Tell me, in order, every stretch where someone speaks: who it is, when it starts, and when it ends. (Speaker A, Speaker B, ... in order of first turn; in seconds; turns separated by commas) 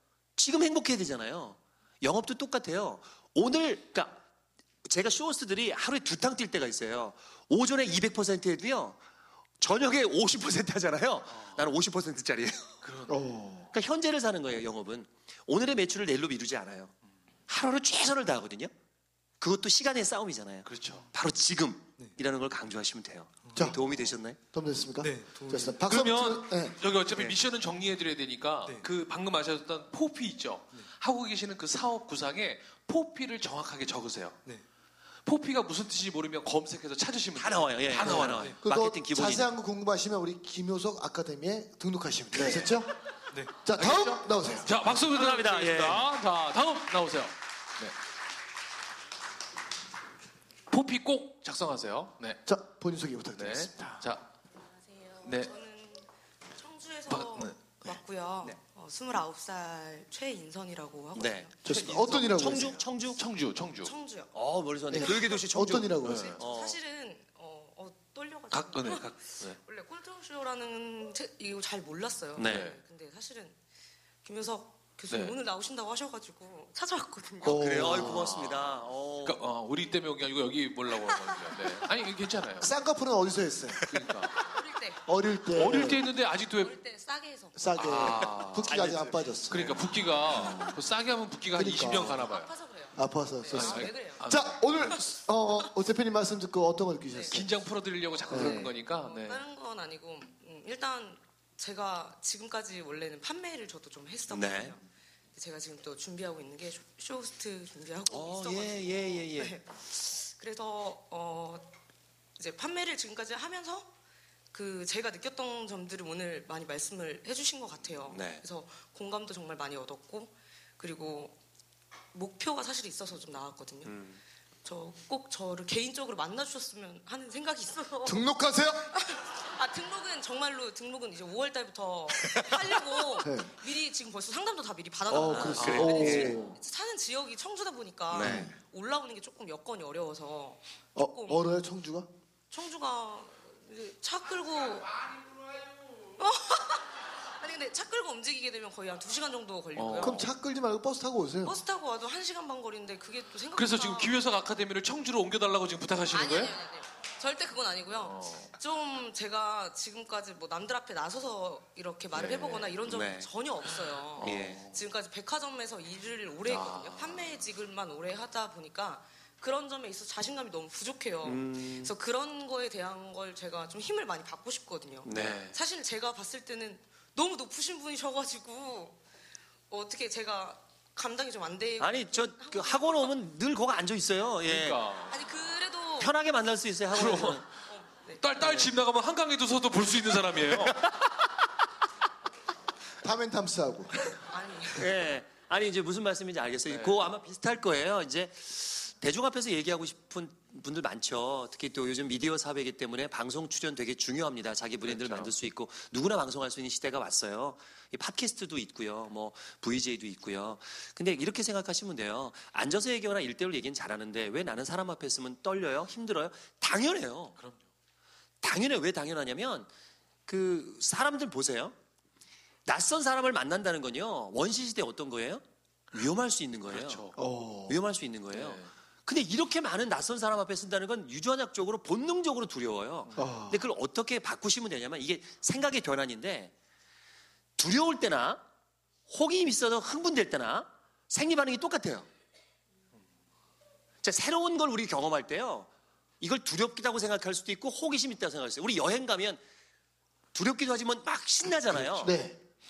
Speaker A: 0.4-4.2, Speaker A: 4.9-9.0, Speaker A: 9.6-12.8, Speaker B: 11.3-11.7, Speaker B: 12.8-13.3, Speaker C: 13.1-13.7, Speaker A: 13.7-16.9, Speaker A: 17.5-18.7, Speaker A: 19.4-24.4, Speaker B: 20.6-21.1, Speaker D: 23.4-23.8, Speaker C: 24.5-26.8, Speaker D: 25.0-26.0, Speaker B: 25.9-34.4, Speaker A: 27.1-27.4, Speaker D: 28.6-28.9, Speaker B: 35.2-38.6, Speaker A: 37.3-39.5, Speaker D: 38.0-38.6, Speaker C: 38.6-42.9, Speaker A: 42.3-42.8, Speaker D: 43.3-43.6, Speaker C: 43.6-44.8, Speaker B: 43.7-47.9, Speaker A: 45.0-46.1, Speaker B: 50.7-52.4, Speaker C: 52.5-54.1, Speaker B: 53.3-54.3, Speaker E: 55.0-62.7, Speaker B: 55.2-55.5, Speaker B: 57.1-57.5, Speaker A: 61.1-63.2, Speaker C: 61.6-62.8, Speaker B: 63.0-64.0, Speaker E: 63.8-64.4, Speaker A: 64.3-66.8, Speaker C: 64.9-66.3, Speaker E: 64.9-73.6, Speaker B: 66.0-66.4, Speaker B: 68.5-69.6, Speaker A: 72.3-72.7, Speaker B: 72.4-72.8, Speaker E: 74.2-78.7, Speaker B: 75.1-75.3, Speaker C: 77.4-78.4, Speaker A: 77.5-79.4, Speaker B: 79.2-82.7, Speaker E: 80.9-81.5, Speaker C: 82.6-83.8, Speaker B: 83.9-84.5, Speaker E: 84.4-85.1, Speaker C: 85.1-86.0, Speaker B: 85.5-86.7, Speaker E: 85.6-87.7, Speaker C: 87.5-90.8, Speaker B: 87.8-92.5, Speaker C: 91.5-92.2, Speaker E: 92.1-94.2, Speaker C: 92.9-97.5, Speaker B: 93.5-94.9, Speaker E: 94.8-95.7, Speaker E: 97.1-97.5, Speaker B: 97.3-99.4, Speaker E: 98.2-104.8, Speaker C: 98.3-98.7, Speaker A: 104.3-104.7, Speaker E: 105.3-111.7, Speaker A: 108.1-109.6, Speaker E: 112.4-113.9, Speaker E: 114.5-121.3, Speaker A: 118.1-118.4, Speaker E: 122.1-124.0, Speaker A: 123.8-124.2, Speaker E: 124.6-128.3, Speaker C: 128.0-128.9, Speaker E: 128.9-141.4, Speaker C: 133.2-133.6, Speaker C: 135.1-136.6, Speaker A: 135.1-136.4, Speaker C: 138.1-138.6, Speaker A: 138.1-138.5, Speaker C: 140.9-142.1, Speaker E: 142.5-145.0, Speaker E: 146.2-150.2, Speaker B: 149.7-150.2, Speaker C: 150.0-151.6, Speaker E: 151.4-154.2, Speaker B: 153.5-156.5, Speaker E: 156.1-179.0, Speaker B: 158.0-158.5, Speaker B: 162.1-162.9, Speaker A: 162.9-163.3, Speaker B: 163.7-164.8, Speaker A: 164.2-164.6, Speaker B: 166.4-167.4, Speaker A: 171.2-171.9, Speaker A: 175.0-175.4, Speaker B: 175.1-175.6, Speaker E: 179.7-183.2, Speaker A: 181.8-184.8, Speaker B: 184.4-185.2, Speaker E: 185.1-186.2, Speaker A: 186.0-187.4, Speaker B: 186.9-187.4, Speaker E: 187.7-188.6, Speaker B: 188.2-190.8, Speaker A: 188.4-188.7, Speaker A: 190.5-191.1, Speaker C: 193.0-194.2, Speaker E: 194.3-194.9, Speaker A: 194.7-217.3, Speaker B: 196.7-197.1, Speaker B: 204.8-205.3, Speaker B: 217.4-217.7, Speaker A: 218.4-219.7, Speaker A: 220.3-221.8, Speaker A: 222.7-227.1, Speaker B: 226.7-227.1, Speaker C: 227.2-227.8, Speaker A: 227.7-236.5, Speaker B: 228.3-228.7, Speaker C: 233.2-233.7, Speaker A: 237.6-238.4, Speaker A: 239.1-242.1, Speaker A: 244.0-245.7, Speaker A: 246.2-249.4, Speaker A: 250.3-252.2, Speaker C: 251.7-252.4